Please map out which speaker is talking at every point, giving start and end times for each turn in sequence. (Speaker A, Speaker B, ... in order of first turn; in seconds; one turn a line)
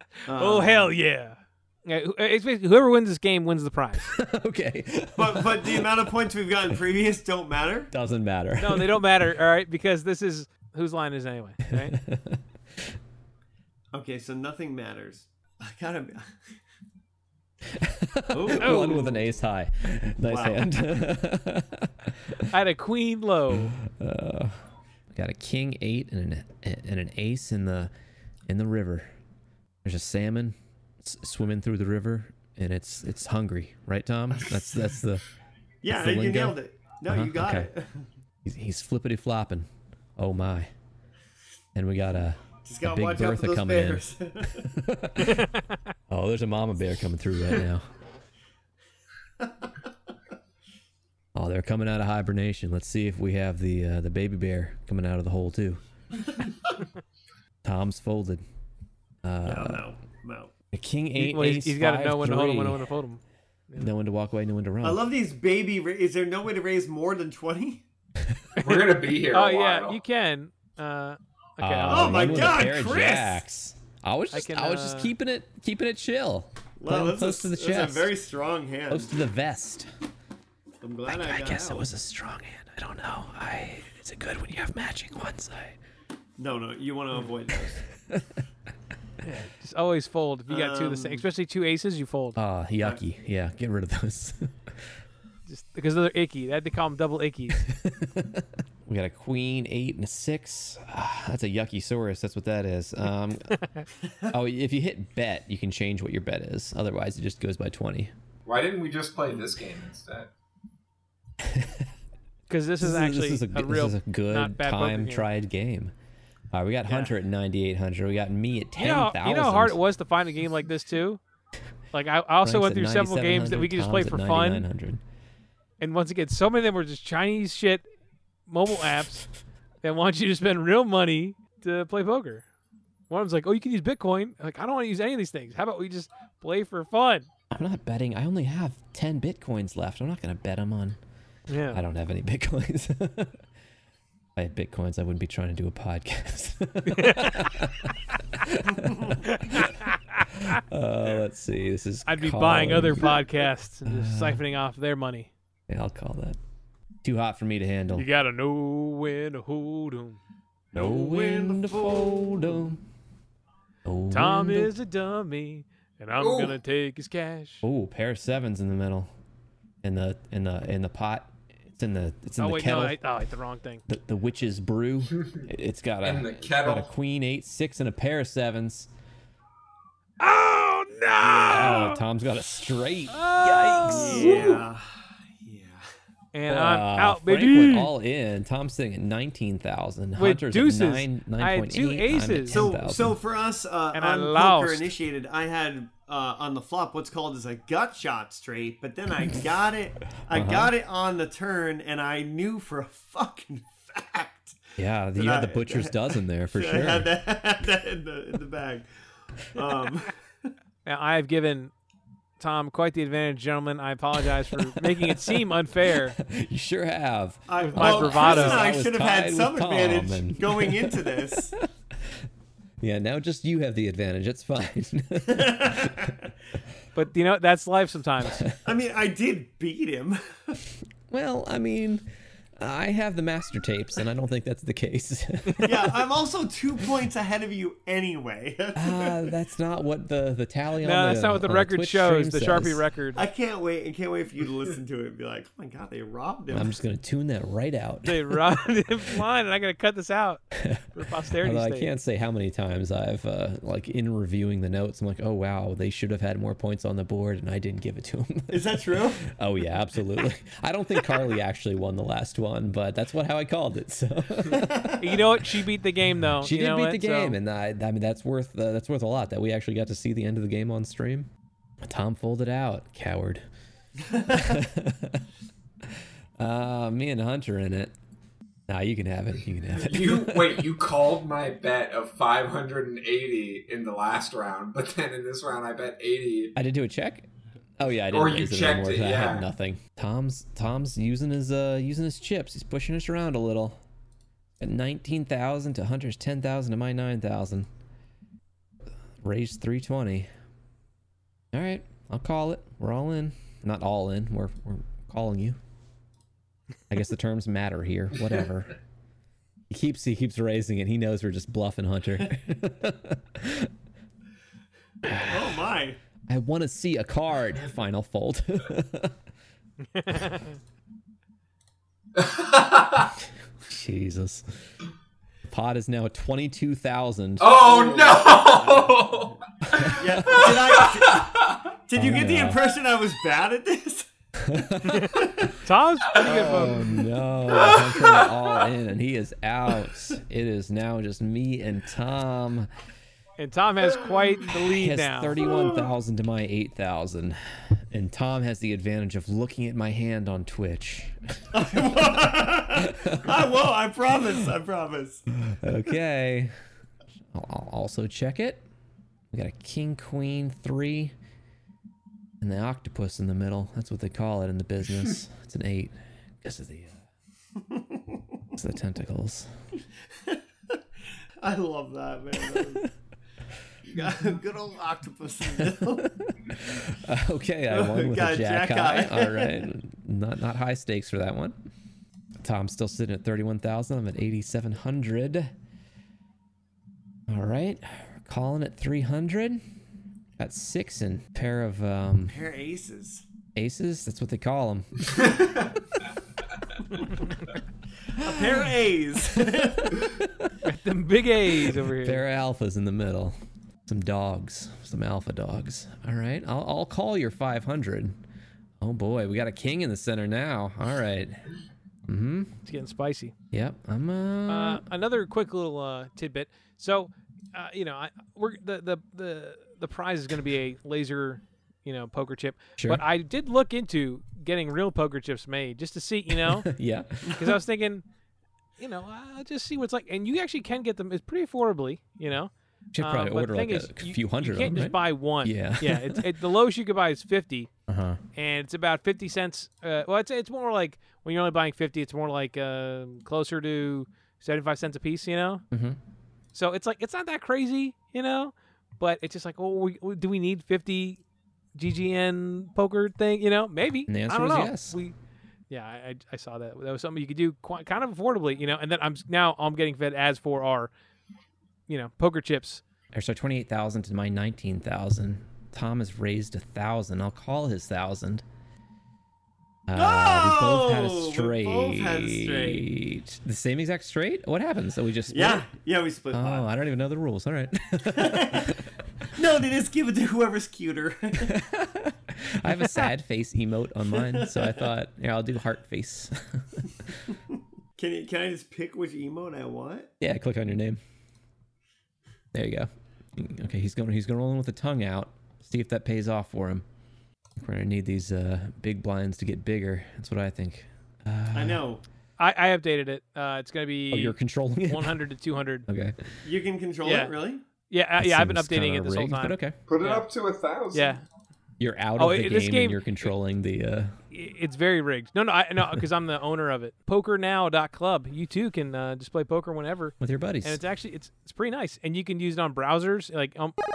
Speaker A: 0.3-4.1
Speaker B: 0.3-0.9
Speaker C: 4.0-6.0
Speaker B: 5.2-7.9
Speaker C: 7.9-9.2
Speaker A: 8.6-11.9
Speaker C: 11.7-12.4
Speaker B: 13.9-16.6
Speaker C: 17.7-22.5
Speaker B: 18.3-19.4
Speaker A: 18.6-19.1
Speaker B: 20.2-20.7
Speaker A: 22.5-23.8
Speaker C: 23.5-24.6
Speaker C: 25.1-27.9
Speaker C: 28.5-29.1
Speaker C: 29.8-35.2
Speaker B: 35.8-38.1
Speaker C: 35.9-37.7
Speaker C: 38.4-40.7
Speaker C: 41.8-45.5
Speaker B: 42.6-44.8
Speaker A: 45.2-45.8
Speaker C: 46.1-47.9
Speaker B: 49.4-49.7
Speaker C: 51.4-55.8
Speaker C: 57.6-58.4
Speaker C: 59.2-59.8
Speaker B: 59.4-60.5
Speaker C: 60.7-62.9
Speaker A: 61.2-63.9
Speaker C: 63.8-65.0
Speaker B: 64.8-67.8
Speaker D: 68.6-70.0
Speaker A: 69.3-72.5
Speaker C: 71.6-78.2
Speaker B: 71.9-73.4
Speaker A: 74.3-75.1
Speaker B: 76.8-79.1
Speaker C: 78.9-79.9
Speaker B: 80.8-81.9
Speaker C: 81.1-85.8
Speaker B: 86.4-87.8
Speaker C: 88.1-88.4
Speaker A: 89.2-92.4
Speaker B: 90.5-91.2
Speaker C: 92.4-94.8
Speaker A: 95.5-97.7
Speaker C: 97.6-103.6
Speaker C: 104.3-108.1
Speaker D: 108.5-110.3
Speaker C: 111.4-111.9
Speaker A: 112.5-115.3
Speaker C: 112.8-115.9
Speaker C: 116.5-119.8
Speaker A: 116.9-117.1
Speaker A: 118.8-121.2
Speaker A: 121.9-124.7
Speaker C: 122.4-125.0
Speaker A: 125.8-127.8
Speaker A: 128.5-129.3
Speaker A: 129.8-132.4
Speaker A: 133.1-137.3
Speaker C: 137.5-141.0
Speaker A: 141.5-141.8
Speaker C: 141.7-143.4
Speaker C: 144.3-153.2
Speaker A: 146.8-147.5
Speaker A: 149.2-150.2
Speaker A: 152.1-155.3
Speaker C: 153.9-154.4
Speaker C: 155.7-156.4
Speaker C: 157.0-158.1
Speaker A: 157.9-160.2
Speaker B: 160.7-162.8
Speaker C: 160.8-162.8
Speaker C: 163.8-164.7
Speaker A: 164.1-167.7
Speaker D: 166.2-166.6
Speaker C: 167.6-169.1
Speaker C: 169.8-173.0
Speaker A: 172.4-173.8
Speaker C: 173.9-178.9
Speaker D: 176.0-176.9
Speaker A: 180.2-182.0
Speaker B: 181.2-181.9
Speaker C: 181.5-184.7
Speaker A: 183.1-184.5
Speaker B: 183.9-185.9
Speaker A: 186.3-187.9
Speaker C: 186.5-193.2
Speaker A: 190.2-192.6
Speaker B: 192.5-210.5
Speaker A: 193.9-194.9
Speaker C: 200.3-200.8
Speaker C: 204.8-207.1
Speaker A: 210.9-211.7
Speaker A: 212.4-216.2
Speaker C: 214.5-222.2
Speaker B: 217.5-221.6
Speaker A: 217.6-218.6
Speaker C: 222.8-226.1
Speaker B: 225.3-226.3
Speaker A: 226.9-228.4
Speaker C: 228.3-228.6
Speaker B: 228.6-230.6
Speaker C: 231.1-236.0
Speaker B: 235.6-239.3
Speaker C: 238.8-242.8
Speaker A: 240.8-243.2
Speaker B: 243.2-246.8
Speaker C: 246.5-248.4
Speaker A: 248.1-251.9
Speaker C: 251.4-264.9
Speaker B: 258.5-259.3
Speaker B: 264.5-265.0
Speaker A: 265.0-267.4
Speaker C: 266.3-271.3
Speaker C: 271.8-273.5
Speaker C: 274.3-275.3
Speaker C: 275.9-277.9
Speaker C: 278.7-280.8
Speaker D: 279.8-286.5
Speaker C: 286.6-287.3
Speaker C: 287.8-293.8
Speaker D: 288.1-289.5
Speaker C: 294.6-297.7
Speaker C: 299.2-300.3
Speaker C: 301.5-305.6
Speaker C: 306.9-308.8
Speaker C: 309.7-313.7
Speaker C: 315.1-315.6
Speaker B: 315.1-316.0
Speaker C: 316.3-319.2
Speaker A: 319.9-320.6
Speaker D: 322.2-323.1
Speaker C: 323.7-324.5
Speaker C: 325.5-327.6
Speaker D: 327.4-331.6
Speaker B: 327.6-334.1
Speaker C: 329.7-330.8
Speaker C: 332.0-332.7
Speaker C: 334.4-335.2
Speaker A: 334.9-336.9
Speaker B: 335.2-335.5
Speaker D: 336.2-338.3
Speaker C: 336.2-342.7
Speaker B: 336.3-336.8
Speaker A: 343.4-345.4
Speaker C: 344.6-351.2
Speaker B: 351.5-355.3
Speaker C: 352.8-353.4
Speaker C: 355.4-356.5
Speaker C: 357.3-358.6
Speaker C: 359.3-361.1
Speaker C: 362.4-367.0
Speaker B: 367.6-368.2
Speaker C: 368.6-369.5
Speaker B: 370.2-370.8
Speaker B: 371.4-372.9
Speaker B: 373.9-376.1
Speaker C: 375.6-381.6
Speaker B: 377.7-379.6
Speaker C: 382.4-385.5
Speaker C: 387.3-389.6
Speaker C: 390.4-392.4
Speaker B: 392.3-393.2
Speaker C: 393.6-395.1
Speaker D: 395.2-395.6
Speaker B: 398.1-400.1
Speaker C: 399.9-400.5
Speaker A: 400.6-402.2
Speaker C: 401.8-408.2
Speaker C: 408.8-411.5
Speaker C: 412.1-412.5
Speaker A: 412.6-413.3
Speaker C: 413.5-414.8
Speaker A: 414.5-426.7
Speaker C: 422.8-423.0
Speaker C: 426.4-427.6
Speaker A: 427.3-428.0
Speaker A: 428.8-437.7
Speaker C: 432.9-436.3
Speaker C: 437.9-438.2
Speaker A: 438.4-445.6
Speaker C: 445.7-446.0
Speaker A: 446.5-451.2
Speaker A: 451.8-455.1
Speaker C: 454.1-455.0
Speaker A: 455.7-460.9
Speaker A: 461.9-462.8
Speaker C: 463.1-468.4
Speaker C: 469.9-475.7
Speaker B: 469.9-472.9
Speaker B: 475.3-476.7
Speaker C: 476.3-478.8
Speaker B: 478.0-478.8
Speaker B: 479.3-481.6
Speaker C: 481.4-486.9
Speaker B: 484.2-484.9
Speaker B: 488.0-490.1
Speaker C: 490.2-491.0
Speaker C: 492.5-496.9
Speaker C: 497.6-501.8
Speaker B: 501.5-502.0
Speaker A: 502.4-504.4
Speaker C: 504.1-505.2
Speaker A: 504.9-505.9
Speaker C: 505.9-506.2
Speaker B: 506.4-507.6
Speaker A: 507.0-507.3
Speaker A: 507.9-510.3
Speaker C: 508.2-509.8
Speaker D: 509.9-511.2
Speaker A: 510.9-511.2
Speaker C: 511.8-514.1
Speaker A: 512.2-513.3
Speaker A: 514.3-523.8
Speaker C: 520.2-520.8